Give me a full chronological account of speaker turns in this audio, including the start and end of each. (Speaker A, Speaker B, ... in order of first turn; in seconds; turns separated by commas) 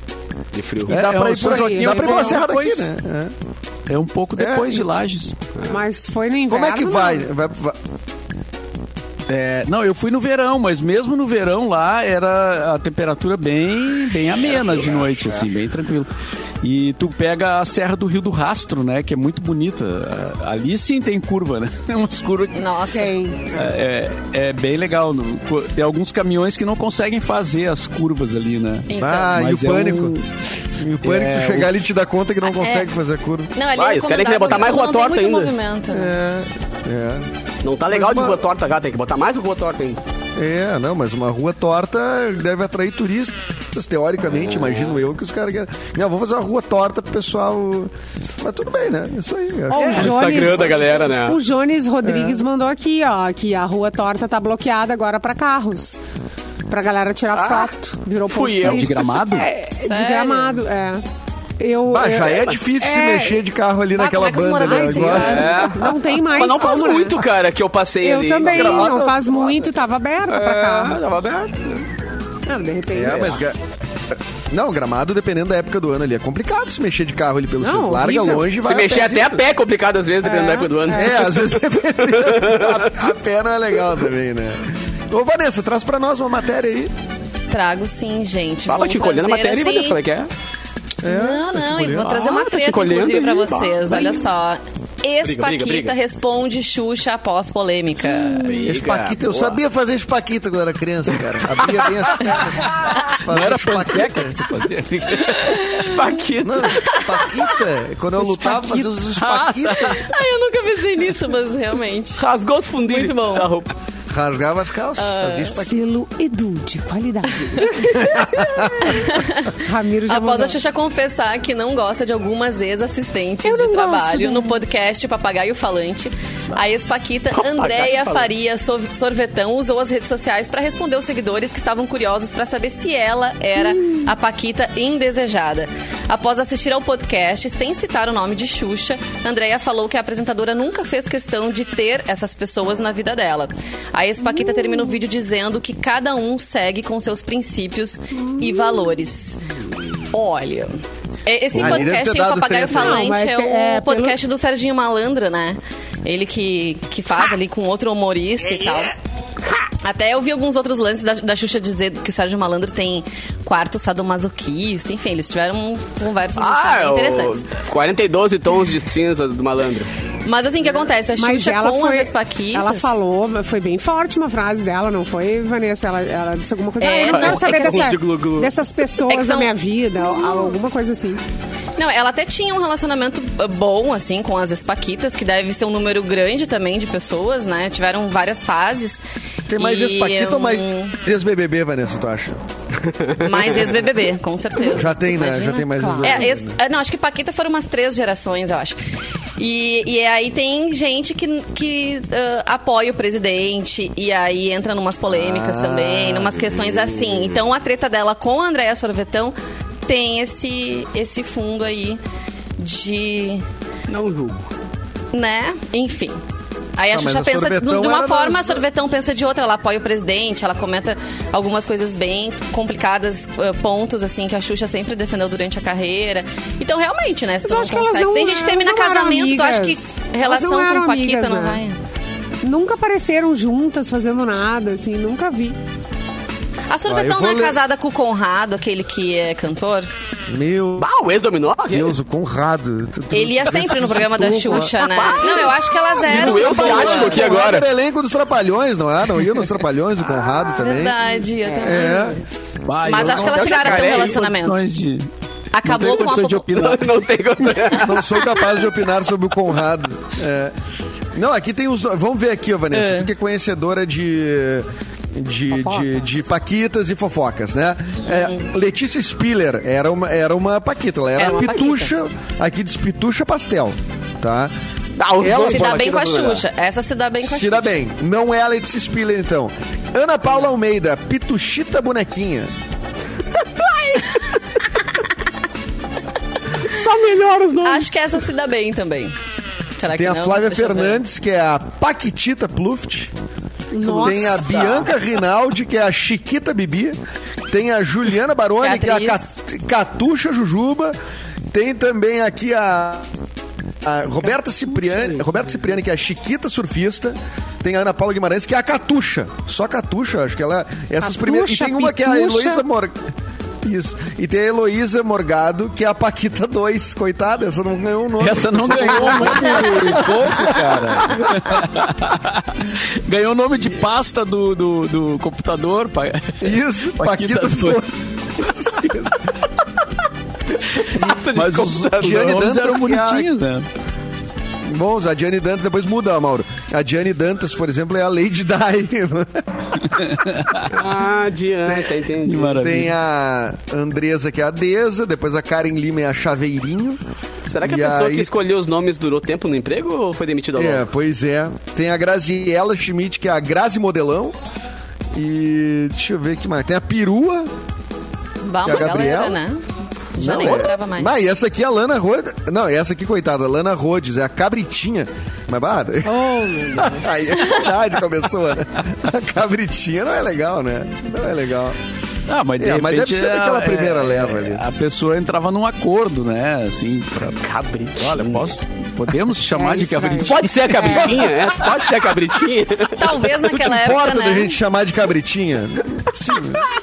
Speaker A: 0.5-1.0, Speaker B: 0.9-2.9, Speaker C: 0.9-3.3, Speaker D: 1.4-2.4, Speaker B: 3.9-5.4, Speaker C: 4.4-4.9, Speaker D: 5.7-7.3, Speaker C: 6.5-7.8, Speaker B: 9.3-16.1, Speaker B: 16.6-22.7, Speaker E: 22.5-23.1, Speaker D: 22.9-23.6, Speaker B: 23.5-30.3, Speaker E: 28.9-29.4, Speaker C: 28.9-30.2, Speaker C: 30.8-33.5, Speaker B: 31.0-31.7, Speaker E: 32.4-32.9, Speaker E: 33.5-36.1, Speaker A: 33.8-35.5, Speaker C: 35.9-37.3, Speaker A: 37.6-40.0, Speaker C: 37.9-38.4, Speaker C: 40.4-50.7, Speaker A: 44.3-45.0, Speaker D: 49.7-56.0, Speaker A: 49.9-51.4, Speaker C: 52.0-52.5, Speaker D: 56.7-61.0, Speaker A: 57.3-57.7, Speaker A: 58.3-59.0, Speaker B: 58.6-59.5, Speaker E: 59.8-60.6, Speaker D: 61.6-63.4, Speaker C: 61.9-66.0, Speaker A: 62.3-62.6, Speaker E: 63.9-65.7, Speaker D: 64.6-67.2, Speaker A: 65.1-69.0, Speaker D: 68.0-71.0, Speaker C: 68.5-69.7, Speaker A: 70.3-71.9, Speaker D: 72.5-73.4, Speaker C: 72.9-73.6, Speaker C: 74.1-79.4, Speaker D: 77.6-78.5, Speaker A: 78.6-82.9, Speaker D: 80.2-81.2, Speaker C: 80.9-86.9, Speaker E: 87.5-90.0, Speaker A: 88.7-90.3, Speaker C: 91.0-92.2, Speaker E: 91.0-98.5, Speaker A: 92.0-94.3, Speaker A: 95.2-96.0, Speaker A: 98.4-99.6, Speaker C: 98.6-104.4, Speaker A: 101.7-102.4, Speaker B: 103.2-105.8, Speaker A: 105.3-107.1, Speaker E: 105.4-106.0, Speaker C: 106.4-110.0, Speaker E: 106.8-107.5, Speaker D: 108.4-108.9, Speaker B: 109.1-110.0, Speaker E: 109.7-112.2, Speaker A: 112.2-113.7, Speaker E: 112.9-113.5, Speaker C: 114.1-115.8, Speaker E: 115.0-115.6, Speaker D: 115.6-120.6, Speaker C: 118.0-118.9, Speaker E: 118.8-149.4, Speaker D: 123.4-124.7, Speaker A: 127.3-128.3, Speaker D: 144.3-144.9, Speaker D: 148.4-148.9, Speaker E: 150.1-158.9, Speaker C: 151.5-153.1, Speaker D: 152.7-154.2, Speaker C: 158.4-158.9, Speaker E: 159.8-167.5, Speaker A: 166.4-169.9, Speaker E: 170.2-172.9, Speaker D: 171.2-181.2, Speaker E: 176.8-177.9, Speaker A: 177.0-178.5, Speaker E: 179.1-180.6, Speaker E: 181.8-189.0, Speaker C: 189.5-192.4, Speaker E: 189.6-191.0, Speaker E: 193.2-198.8, Speaker C: 194.7-196.6, Speaker D: 195.7-196.3, Speaker E: 199.4-209.3, Speaker C: 205.1-206.7, Speaker E: 209.9-212.0, Speaker E: 212.6-213.4, Speaker A: 213.9-214.5, Speaker E: 215.1-216.2, Speaker E: 216.8-231.8, Speaker C: 216.9-218.6, Speaker D: 227.4-231.6, Speaker D: 232.4-235.6, Speaker E: 236.7-239.9, Speaker C: 236.9-237.6, Speaker C: 240.3-240.9, Speaker A: 240.8-242.0, Speaker C: 241.7-244.8, Speaker E: 243.1-247.4, Speaker A: 244.8-247.7, Speaker C: 246.1-251.0, Speaker E: 250.4-252.2, Speaker D: 251.5-252.1, Speaker C: 251.6-252.2, Speaker B: 252.7-255.1, Speaker E: 252.8-254.7, Speaker A: 253.0-254.2, Speaker E: 255.5-256.5, Speaker B: 255.6-256.9, Speaker A: 256.5-258.1, Speaker C: 257.7-260.6, Speaker C: 261.1-274.5, Speaker E: 262.7-263.1, Speaker D: 265.5-266.0, Speaker E: 271.2-271.9, Speaker A: 275.0-276.4, Speaker C: 275.2-275.9, Speaker E: 275.3-277.7, Speaker C: 277.2-282.5, Speaker A: 283.6-284.4, Speaker A: 286.6-287.9, Speaker E: 287.6-289.1, Speaker E: 289.8-291.0, Speaker C: 289.9-293.1, Speaker D: 293.7-294.5, Speaker C: 293.8-297.0, Speaker A: 294.4-294.9, Speaker C: 297.5-300.9, Speaker E: 298.6-299.3, Speaker C: 301.5-303.1, Speaker C: 303.8-313.0, Speaker D: 311.0-312.6, Speaker C: 313.6-321.3, Speaker B: 318.2-327.8, Speaker C: 326.4-329.3, Speaker A: 330.8-332.4, Speaker C: 330.9-331.3, Speaker B: 331.3-333.7, Speaker C: 332.0-333.3, Speaker C: 334.6-339.8, Speaker B: 339.9-340.8, Speaker A: 340.7-342.7, Speaker C: 341.7-347.0, Speaker B: 342.2-342.9, Speaker A: 347.5-350.9, Speaker C: 347.6-348.3, Speaker C: 350.6-354.4, Speaker C: 355.1-357.5, Speaker E: 358.4-359.6, Speaker C: 358.6-359.4, Speaker E: 360.1-361.1, Speaker C: 360.2-371.8, Speaker D: 366.1-367.1, Speaker B: 372.3-377.4, Speaker C: 372.6-374.6, Speaker A: 377.2-378.5, Speaker B: 377.9-381.2, Speaker D: 379.5-381.6, Speaker A: 380.2-383.2, Speaker E: 382.9-384.6, Speaker C: 383.4-386.6